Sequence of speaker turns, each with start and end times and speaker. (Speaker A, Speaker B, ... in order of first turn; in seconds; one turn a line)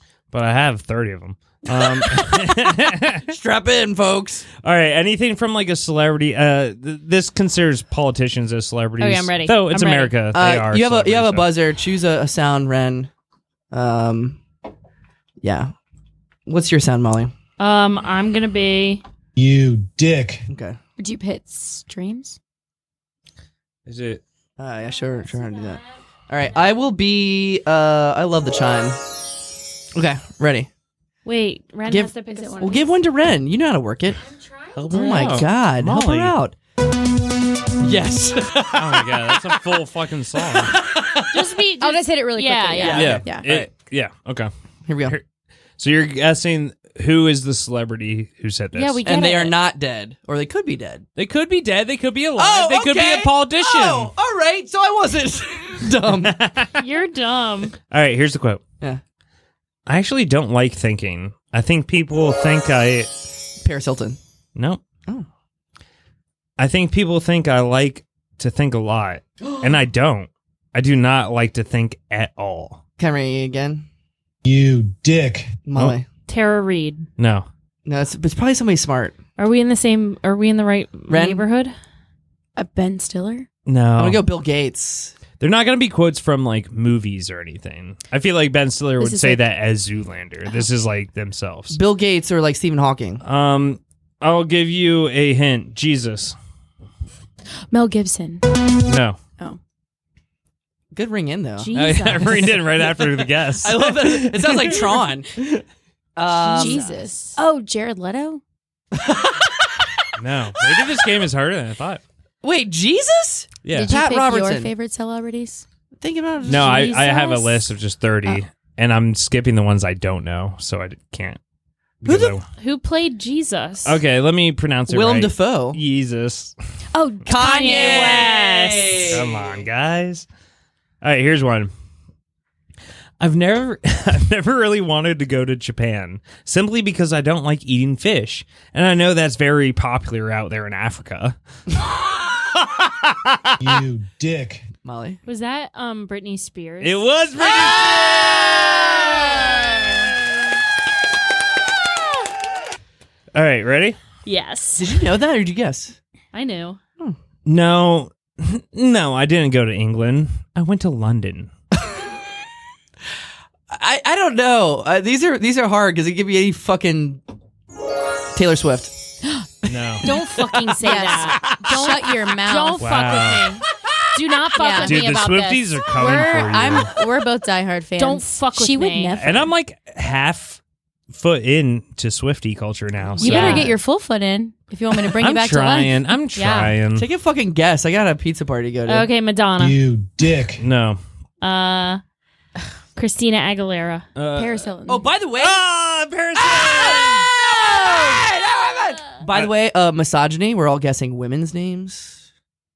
Speaker A: 0.3-3.3
Speaker B: 3.3-4.5
Speaker A: 4.6-11.5
Speaker C: 9.0-10.1
Speaker B: 10.3-13.1
Speaker B: 13.7-14.4
Speaker B: 15.4-15.7
Speaker B: 16.4-17.3
Speaker C: 17.6-19.0
Speaker D: 19.4-20.4
Speaker B: 20.5-20.8
Speaker E: 21.0-22.4
Speaker A: 23.9-24.2
Speaker B: 24.6-29.0
Speaker C: 25.1-25.8
Speaker B: 29.9-30.7
Speaker C: 31.2-32.9
Speaker B: 31.9-34.2
Speaker E: 32.2-32.9
Speaker C: 34.4-35.3
Speaker A: 34.8-36.3
Speaker B: 34.9-36.5
Speaker B: 37.8-39.6
Speaker A: 38.7-40.8
Speaker B: 40.4-41.4
Speaker C: 41.3-43.1
Speaker E: 41.8-43.5
Speaker B: 42.8-43.7
Speaker A: 43.0-44.5
Speaker B: 44.9-45.2
Speaker A: 45.8-49.0
Speaker C: 48.7-49.6
Speaker B: 49.0-51.0
Speaker A: 51.1-54.1
Speaker B: 52.4-56.4
Speaker A: 56.2-56.8
Speaker C: 56.8-57.7
Speaker A: 57.8-58.6
Speaker A: 59.9-63.1
Speaker B: 63.6-64.2
Speaker A: 64.5-64.8
Speaker A: 66.6-72.8
Speaker B: 73.0-73.8
Speaker D: 74.4-75.6
Speaker B: 75.6-76.0
Speaker C: 76.3-77.1
Speaker A: 77.2-77.5
Speaker B: 77.8-79.1
Speaker C: 79.4-81.7
Speaker B: 81.1-81.4
Speaker E: 82.5-83.5
Speaker A: 83.7-84.2
Speaker B: 84.0-85.2
Speaker A: 85.4-91.8
Speaker E: 89.0-89.4
Speaker B: 91.7-93.2
Speaker A: 93.2-96.3
Speaker E: 97.7-98.4
Speaker A: 98.9-99.2
Speaker B: 100.9-101.8
Speaker C: 101.6-102.7
Speaker A: 101.7-105.6
Speaker B: 103.5-105.3
Speaker B: 106.2-106.8
Speaker E: 106.4-108.4
Speaker C: 106.4-107.4
Speaker B: 108.9-109.8
Speaker A: 110.2-112.0
Speaker B: 112.4-114.7
Speaker A: 113.6-113.9
Speaker E: 113.7-115.6
Speaker B: 116.0-117.0
Speaker A: 116.4-121.4
Speaker E: 116.5-117.6
Speaker A: 122.0-122.4
Speaker B: 122.0-122.4
Speaker C: 122.6-124.0
Speaker A: 123.8-126.5
Speaker B: 124.9-125.8
Speaker E: 126.9-128.2
Speaker B: 127.2-129.6
Speaker C: 127.3-129.1
Speaker A: 129.1-130.2
Speaker A: 131.0-131.7
Speaker A: 133.2-143.8
Speaker D: 143.6-144.6
Speaker B: 144.8-145.2
Speaker C: 145.2-147.1
Speaker A: 146.8-148.1
Speaker B: 147.5-149.7
Speaker A: 153.3-154.0
Speaker C: 154.2-154.9
Speaker B: 154.8-156.0
Speaker C: 156.3-156.8
Speaker A: 157.4-161.5
Speaker B: 163.7-167.2
Speaker B: 168.3-168.9
Speaker A: 169.7-170.0
Speaker C: 170.0-175.8
Speaker E: 170.8-172.8
Speaker B: 171.1-171.8
Speaker A: 172.8-173.5
Speaker E: 174.6-175.0
Speaker A: 174.8-176.9
Speaker E: 175.9-179.5
Speaker C: 178.0-179.1
Speaker A: 179.2-183.7
Speaker E: 183.2-185.9
Speaker C: 183.2-183.7
Speaker A: 185.0-187.1
Speaker C: 186.3-186.7
Speaker B: 186.9-189.1
Speaker C: 188.9-189.8
Speaker D: 189.6-190.6
Speaker A: 190.6-191.0
Speaker C: 191.4-192.0
Speaker C: 192.9-194.1
Speaker A: 194.2-194.7
Speaker E: 194.3-195.1
Speaker B: 194.9-195.6
Speaker A: 195.4-197.2
Speaker B: 196.3-202.2